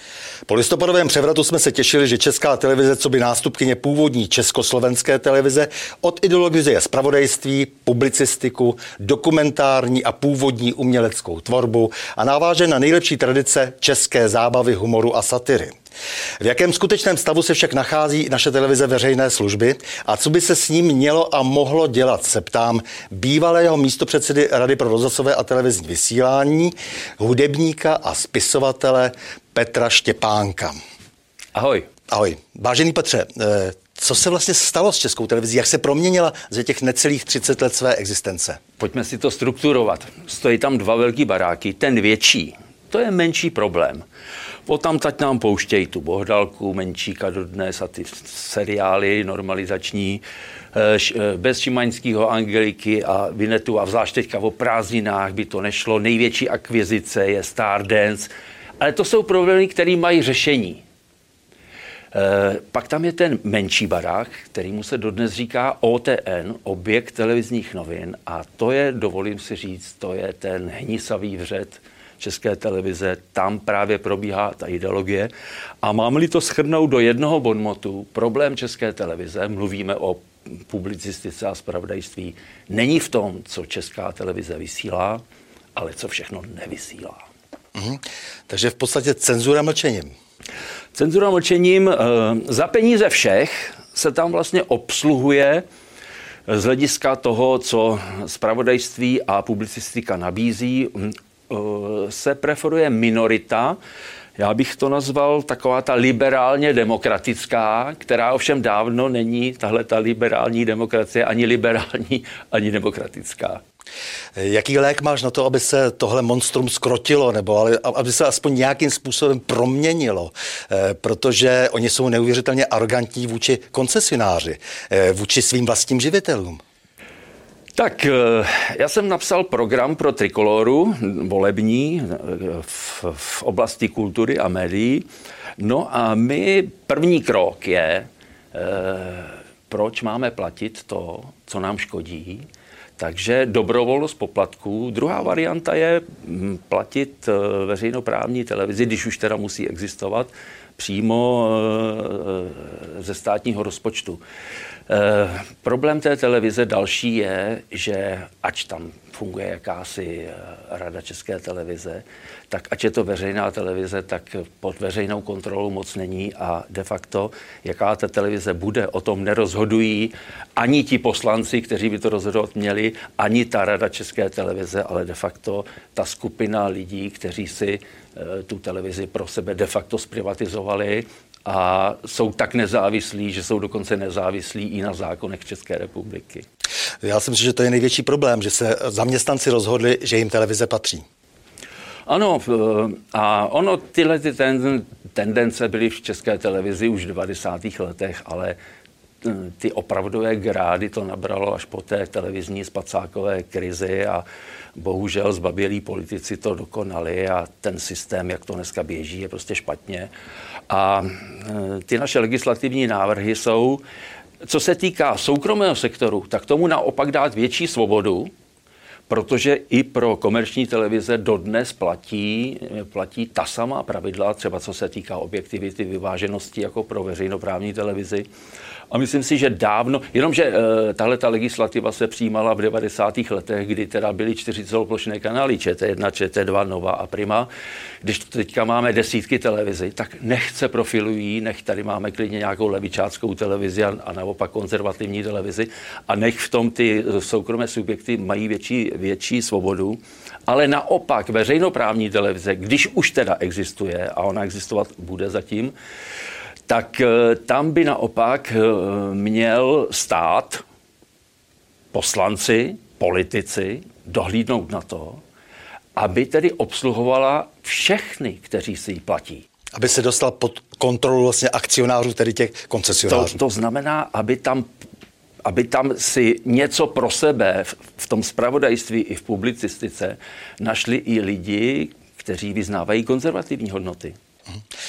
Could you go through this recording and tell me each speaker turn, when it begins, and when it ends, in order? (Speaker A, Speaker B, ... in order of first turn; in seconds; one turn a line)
Speaker A: 0.5-15.7
Speaker A: 16.4-30.8
Speaker B: 31.5-31.9
Speaker A: 32.1-38.6
Speaker B: 38.8-44.0
Speaker B: 44.7-50.2
Speaker B: 50.7-60.8
Speaker B: 62.1-75.3
Speaker B: 75.8-85.2
Speaker B: 85.8-87.2
Speaker A: 87.8-90.1
Speaker B: 90.9-95.6
Speaker B: 96.5-103.8
Speaker B: 104.4-113.6
Speaker A: 114.4-126.6
Speaker B: 127.8-135.1
Speaker B: 135.6-142.4
Speaker B: 143.0-154.2
Speaker B: 154.9-186.4
Speaker A: 187.0-191.0
Speaker B: 192.1-198.6
Speaker B: 199.2-204.2
Speaker B: 204.8-210.1
Speaker B: 210.7-213.8
Speaker B: 214.4-218.3
Speaker B: 219.1-228.3
Speaker B: 228.9-237.5
Speaker B: 238.0-255.7
Speaker B: 256.7-260.6
Speaker B: 261.9-265.2
Speaker B: 266.0-269.4
Speaker A: 269.8-273.4
Speaker B: 273.1-274.7
Speaker B: 275.4-284.2